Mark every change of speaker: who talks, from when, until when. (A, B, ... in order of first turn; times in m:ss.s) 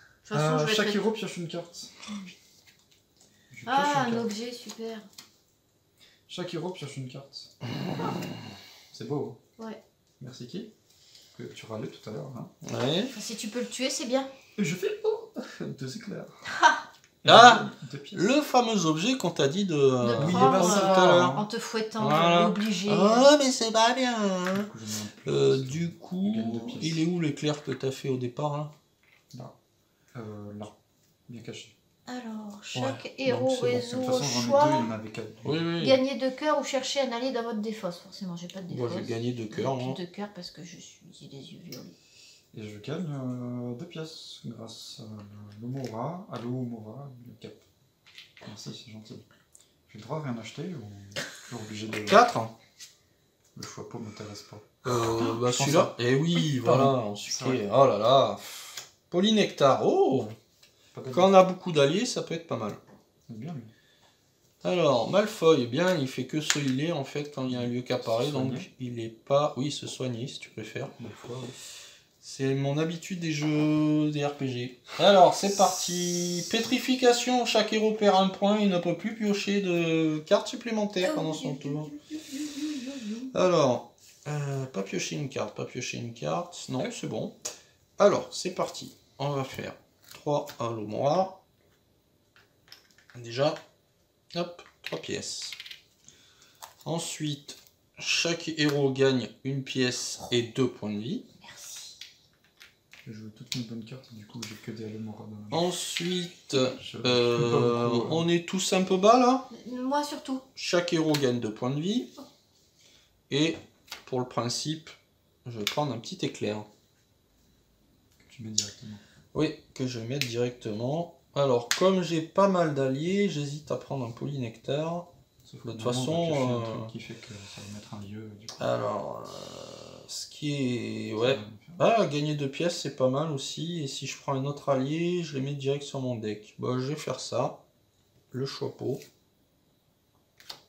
0:00.2-0:01.0 A
0:00.3-0:01.9 B
0:03.5-0:04.3 B
0:03.6-0:05.1 A
0:06.3-0:09.4 B
0:10.2-0:10.7 B
0:11.3-0:12.5 B
0:12.6-0:13.1 C
0:13.1-0:14.3 A
0:14.6-0:16.4 B
0:16.5-0:16.8 A
0:17.2-0:18.3 B
0:17.2-0:21.4 C
0:20.0-0:23.3 A
0:20.2-0:21.5 B
0:22.0-0:24.7 C
0:24.5-0:27.0 B
0:25.2-0:28.7 C
0:30.1-0:30.7 B
0:31.3-0:31.7 B
0:32.1-0:34.9 A
0:32.7-0:34.1 C
0:33.9-0:35.7 B
0:35.4-0:36.0 C
0:35.8-0:41.9 A
0:38.7-0:40.0 C
0:42.5-0:47.6 B
0:48.4-0:49.3 B
0:49.9-0:52.2 B
0:52.1-0:52.5 C
0:53.5-0:57.6 B
0:54.8-1:00.3 C
1:00.9-1:01.4 B
1:01.1-1:02.8 C
1:03.3-1:03.7 B
1:04.6-1:10.9 C
1:07.5-1:08.7 B
1:11.0-1:11.6 B
1:12.2-1:21.9 C
1:21.0-1:23.3 A
1:23.3-1:27.4 C
1:28.0-1:31.4 C
1:33.1-1:33.6 C
1:34.3-1:35.6 C
1:36.8-1:41.2 C
1:41.4-1:41.9 A
1:43.0-1:45.6 B
1:45.5-1:49.5 C
1:46.8-1:48.2 B
1:49.5-1:50.4 A
1:50.6-1:52.1 C
1:53.3-1:56.7 C
1:58.2-1:59.0 B
1:59.3-2:05.1 C
2:05.4-2:08.7 B
2:05.6-2:06.9 C
2:08.6-2:17.6 C
2:11.2-2:11.8 B
2:18.3-2:19.0 C